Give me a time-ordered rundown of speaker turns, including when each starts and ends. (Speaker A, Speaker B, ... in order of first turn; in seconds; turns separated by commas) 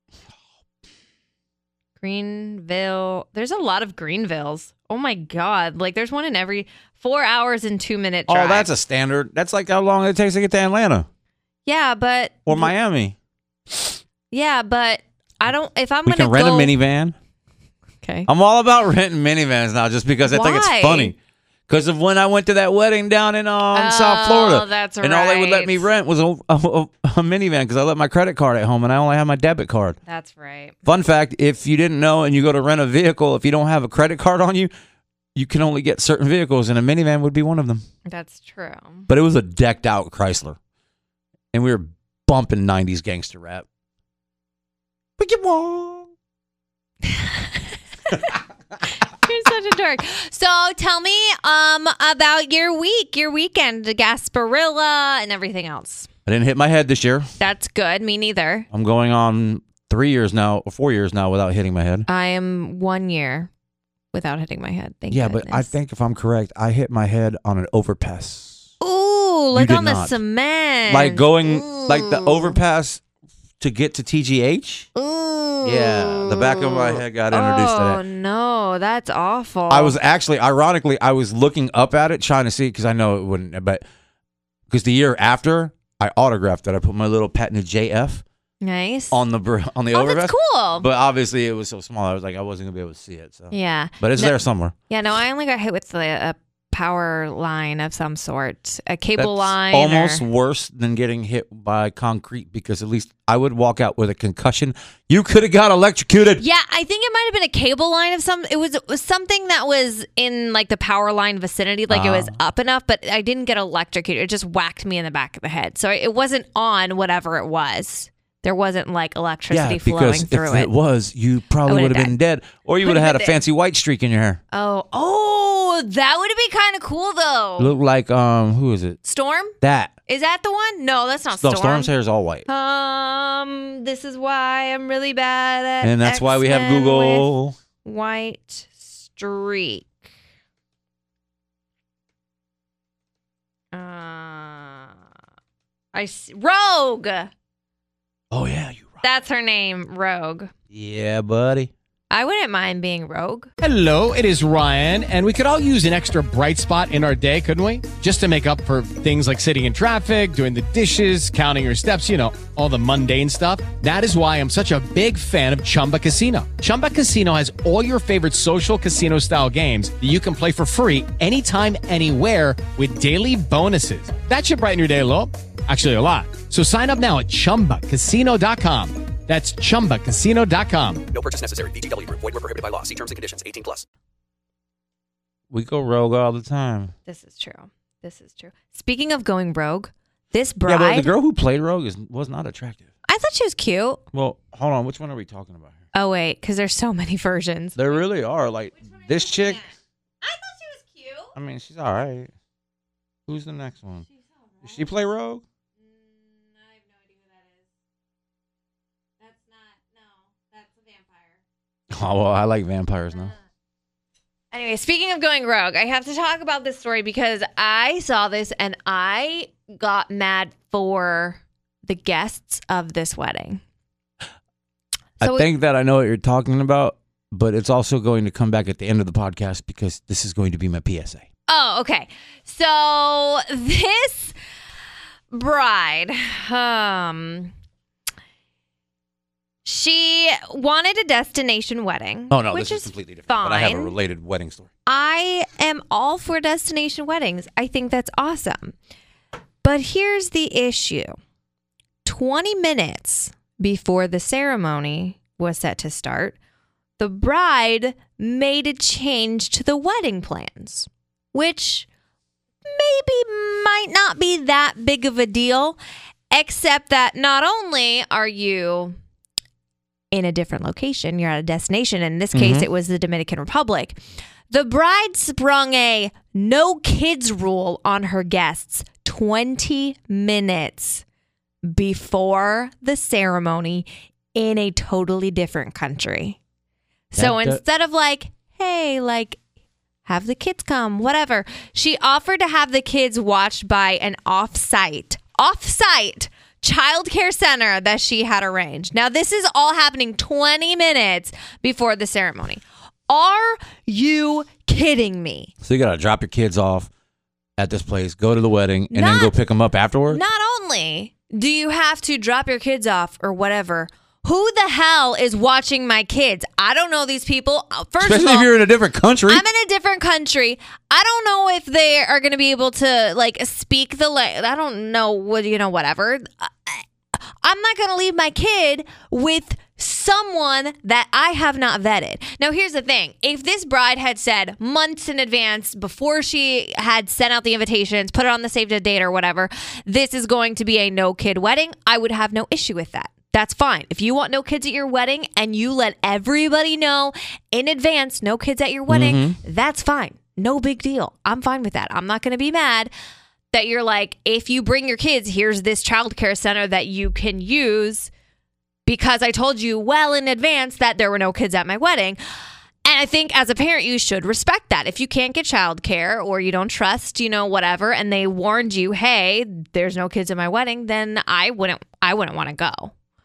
Speaker A: 2.0-8.7, Speaker B: 8.3-11.1, Speaker A: 11.7-12.7, Speaker B: 12.5-13.2, Speaker A: 14.3-16.7, Speaker B: 16.1-17.2, Speaker A: 18.0-18.3, Speaker B: 18.3-21.2, Speaker A: 20.3-21.1, Speaker B: 21.7-30.0, Speaker A: 23.7-25.9, Speaker A: 30.1-30.8, Speaker B: 30.9-34.7, Speaker B: 35.4-37.8, Speaker A: 38.1-39.1, Speaker B: 39.1-40.6, Speaker B: 41.5-43.7, Speaker B: 45.2-46.1, Speaker A: 47.0-48.3, Speaker A: 49.1-56.1, Speaker B: 56.3-57.3, Speaker A: 57.4-58.7, Speaker B: 58.7-62.1, Speaker A: 62.1-63.5, Speaker A: 64.1-65.7, Speaker B: 65.1-68.7, Speaker A: 68.8-72.6, Speaker B: 69.5-70.2, Speaker B: 70.9-73.0, Speaker B: 73.6-74.9, Speaker A: 75.0-80.0, Speaker B: 75.6-78.0, Speaker B: 79.7-83.8, Speaker B: 84.7-88.2, Speaker A: 88.6-89.2, Speaker B: 89.1-94.7, Speaker A: 89.9-90.9, Speaker A: 93.5-94.4, Speaker A: 94.9-100.2, Speaker B: 99.2-106.4, Speaker A: 106.4-120.7, Speaker B: 111.9-112.4, Speaker B: 119.5-124.4, Speaker A: 121.7-122.2, Speaker A: 122.8-123.4, Speaker A: 124.5-127.7, Speaker B: 127.6-129.0, Speaker A: 129.1-129.6, Speaker B: 129.6-129.9, Speaker A: 130.1-131.9, Speaker B: 131.3-132.5, Speaker A: 132.5-137.3, Speaker B: 135.8-137.6, Speaker A: 137.8-139.9, Speaker A: 143.7-144.9, Speaker A: 145.9-147.3, Speaker B: 148.3-149.0, Speaker A: 149.0-150.5, Speaker B: 150.7-151.7, Speaker A: 152.1-153.5, Speaker C: 153.6-181.1, Speaker D: 181.1-183.9, Speaker B: 185.5-186.9, Speaker A: 187.1-191.1, Speaker B: 190.7-192.9, Speaker A: 193.1-194.0, Speaker B: 194.1-195.8, Speaker A: 195.9-198.0, Speaker B: 197.8-199.6, Speaker A: 198.8-201.3, Speaker B: 201.3-202.3, Speaker B: 203.3-204.1, Speaker A: 204.2-204.9, Speaker B: 204.6-205.4, Speaker A: 205.8-207.6, Speaker A: 209.2-211.4, Speaker B: 211.9-213.3, Speaker A: 214.5-223.6, Speaker A: 225.2-225.5, Speaker B: 225.2-231.3, Speaker A: 231.5-234.3, Speaker A: 235.3-237.5, Speaker A: 239.7-243.9, Speaker B: 242.3-244.7, Speaker A: 244.9-248.8, Speaker A: 249.6-251.2, Speaker A: 252.1-256.4, Speaker A: 257.0-261.9, Speaker A: 262.7-265.8, Speaker A: 266.3-268.9, Speaker A: 270.1-274.0, Speaker B: 272.3-272.7, Speaker A: 274.5-281.0, Speaker A: 281.6-286.4, Speaker A: 287.1-289.4, Speaker B: 287.1-287.6, Speaker A: 290.1-305.5, Speaker B: 305.6-306.9, Speaker B: 307.6-310.2, Speaker A: 308.9-309.3, Speaker A: 310.1-318.5, Speaker B: 318.0-319.4, Speaker A: 319.3-352.9, Speaker B: 348.9-349.4, Speaker A: 353.5-358.1, Speaker A: 358.9-362.2, Speaker A: 362.9-372.9